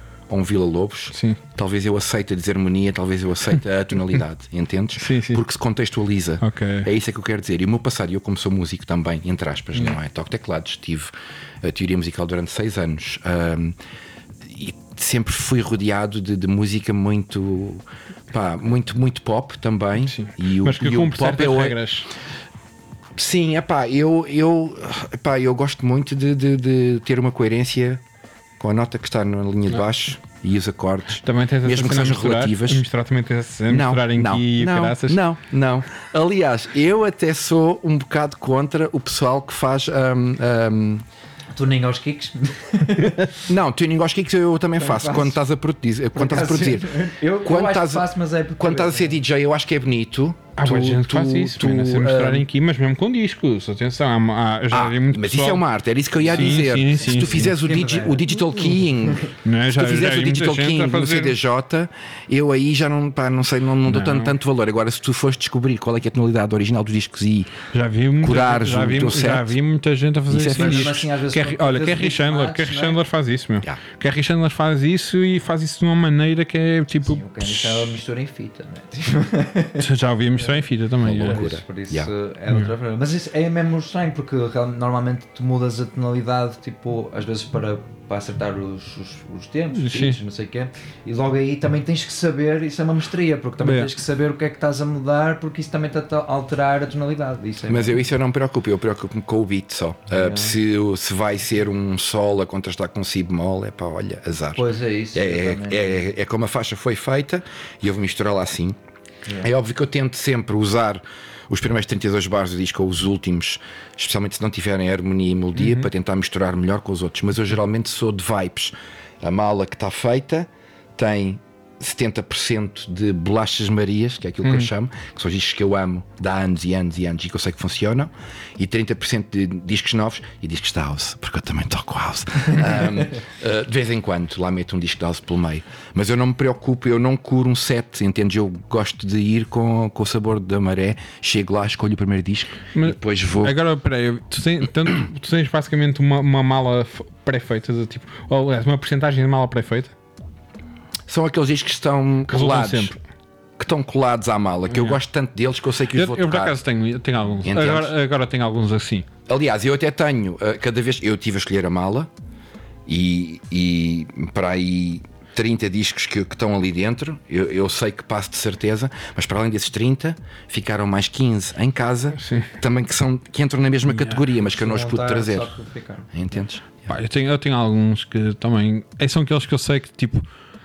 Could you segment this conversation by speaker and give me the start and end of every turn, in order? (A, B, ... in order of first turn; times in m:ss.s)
0:00.3-0:13.8 A
0:01.1-0:01.4 B
0:05.0-0:05.4 B
0:06.4-0:06.9 B
0:14.4-0:21.8 A
0:20.0-0:22.1 B
0:23.2-0:28.0 A
0:28.6-0:32.8 A
0:31.2-0:35.2 B
0:33.7-0:41.0 A
0:41.6-0:43.3 C
0:43.4-0:52.5 A
0:44.8-0:45.4 C
0:46.2-0:49.2 C
0:50.6-0:55.7 B
0:54.7-1:07.6 A
0:56.2-0:57.6 B
0:57.2-0:58.4 C
0:59.4-1:01.4 B
1:03.9-1:04.4 B
1:07.7-1:17.2 B
1:08.2-1:09.6 A
1:10.3-1:11.0 A
1:10.5-1:13.0 C
1:17.0-1:19.8 C
1:19.8-1:21.5 B
1:21.0-1:22.1 A
1:21.3-1:38.0 C
1:29.8-1:30.2 B
1:33.6-1:33.9 B
1:37.7-1:48.8 A
1:40.1-1:40.6 C
1:44.6-1:46.0 C
1:49.4-2:23.6 A
1:55.6-1:55.9 B
2:22.8-2:29.9 B
2:31.1-2:32.9 A
2:32.3-2:33.0 B
2:33.6-2:36.6 A
2:34.7-2:35.0 B
2:35.9-2:39.1 B
2:37.4-2:37.9 A
2:39.3-2:42.1 A
2:42.9-2:55.5 A
2:52.2-2:52.5 B
2:54.0-2:54.2 B
2:54.5-2:56.1 C
2:56.1-2:56.9 A
2:56.9-3:00.3 B